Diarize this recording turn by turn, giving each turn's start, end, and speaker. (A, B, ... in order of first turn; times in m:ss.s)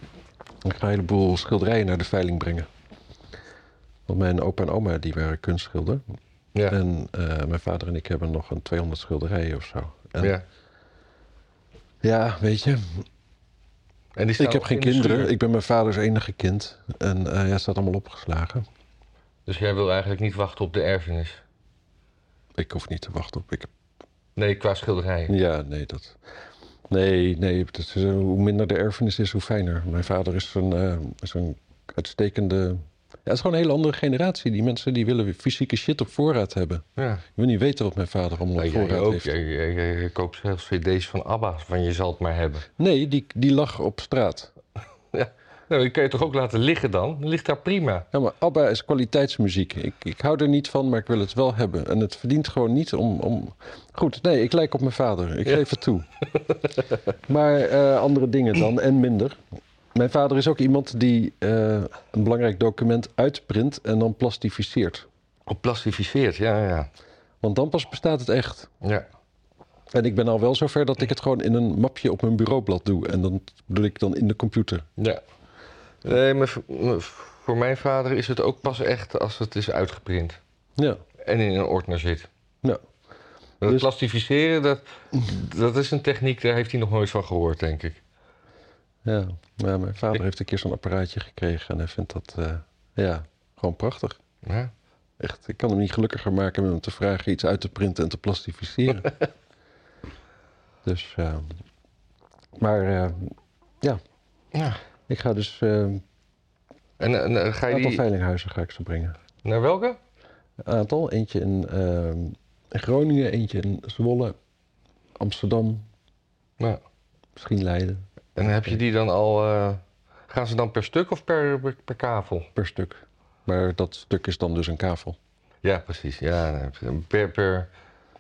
0:00.6-0:02.7 A
0:04.1-0:06.0 A
0:06.7-0:10.4 A
0:12.0-0:13.0 A
0:14.2-0:15.3 B
0:14.4-0:18.6 A
0:19.5-0:21.4 B
0:22.6-0:23.7 A
0:24.4-0:25.4 B
0:25.3-0:26.2 A
0:26.9-0:36.8 A
0:37.0-0:37.2 B
0:37.4-0:39.3 A
0:38.6-0:42.7 B
0:42.8-0:44.5 A
0:45.1-0:48.1 B
0:48.1-0:56.1 A
0:56.3-0:57.0 B
0:57.3-0:59.4 A
0:59.9-1:05.1 A
1:05.5-1:06.9 B
1:07.4-1:08.7 A
1:09.9-1:14.9 A
1:16.0-1:20.4 B
1:21.2-1:22.3 B
1:23.6-1:28.0 B
1:29.0-1:34.2 A
1:34.4-1:34.7 B
1:35.2-1:39.1 A
1:40.8-1:41.5 A
1:42.6-1:44.0 A
1:44.5-1:44.8 B
1:45.1-1:46.0 A
1:47.0-1:48.0 B
1:47.7-1:49.2 A
1:49.4-1:50.0 B
1:50.6-1:54.4 A
1:55.2-1:55.9 A
1:57.4-1:58.8 A
1:58.4-2:02.5 B
2:02.6-2:05.2 A
2:05.6-2:07.7 B